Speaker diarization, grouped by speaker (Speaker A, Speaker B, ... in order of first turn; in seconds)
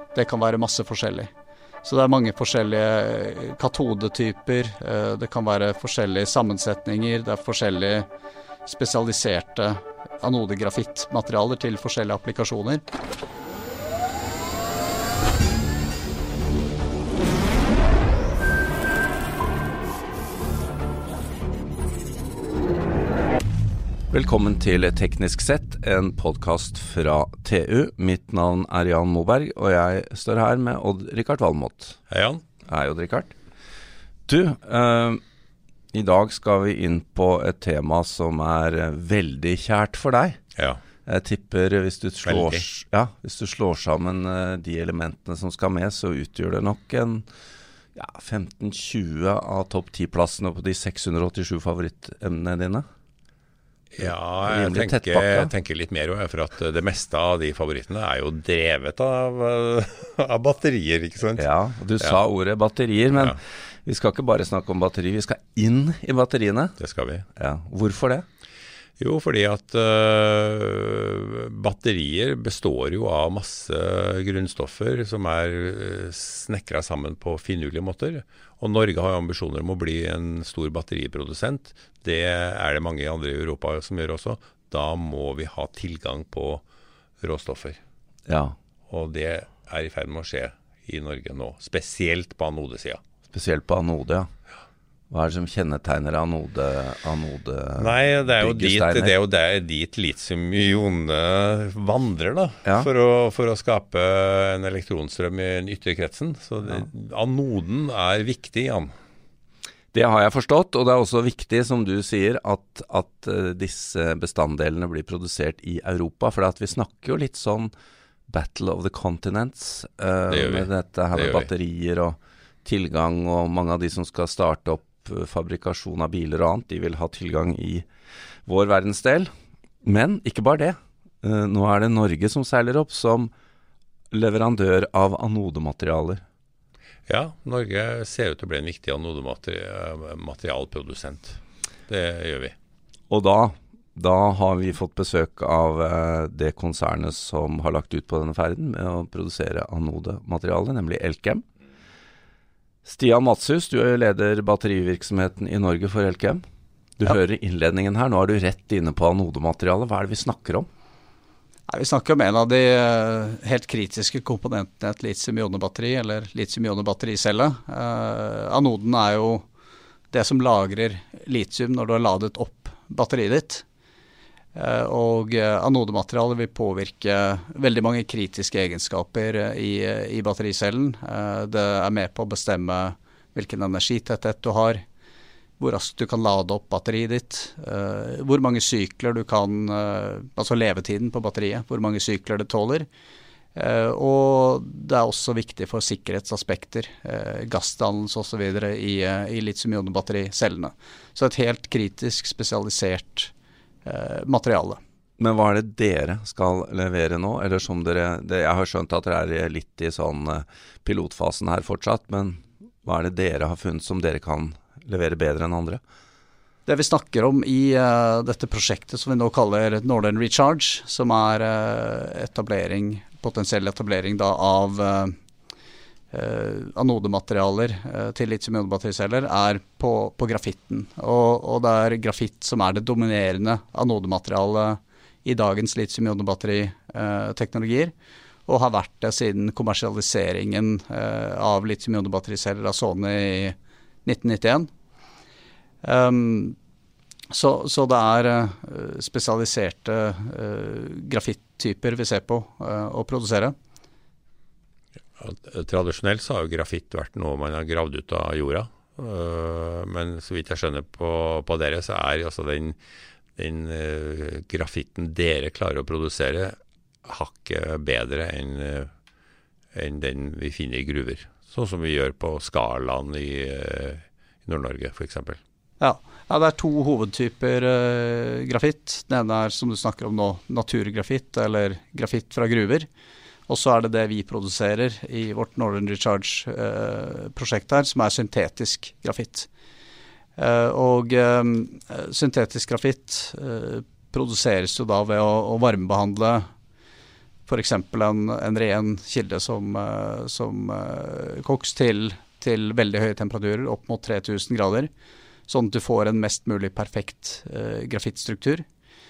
Speaker A: 0.1-1.3, 1.8-8.1, 8.7-12.8, 161.7-169.4, 170.1-173.6, 174.6-184.8, 185.6-192.9, 193.6-203.3, 203.8-204.8, 216.7-225.1, 226.1-237.9, 238.5-244.7, 245.8-246.6, 247.3-253.5, 275.8-282.9, 283.5-289.5, 290.4-296.5, 297.5-304.9, 305.5-308.6
Speaker B: 24.1-32.0, 32.6-33.3, 34.3-35.2, 35.9-40.4, 41.0-47.2, 47.9-52.8, 54.0-55.5, 61.4-66.8, 67.3-68.2, 88.3-88.5, 93.3-94.3, 95.1-99.1, 102.6-102.9, 109.9-117.7, 118.3-127.8, 128.5-129.3, 129.8-133.3, 134.1-136.2, 143.1-151.4, 152.8-156.4, 157.0-160.7, 205.2-215.8
Speaker C: 32.1-32.4, 42.2-42.6, 53.9-61.5, 66.8-67.2, 69.0-86.6, 87.2-87.8, 88.9-93.0, 97.8-108.9, 120.3-121.5, 137.1-142.5, 255.2-262.8, 263.4-268.9, 269.7-275.4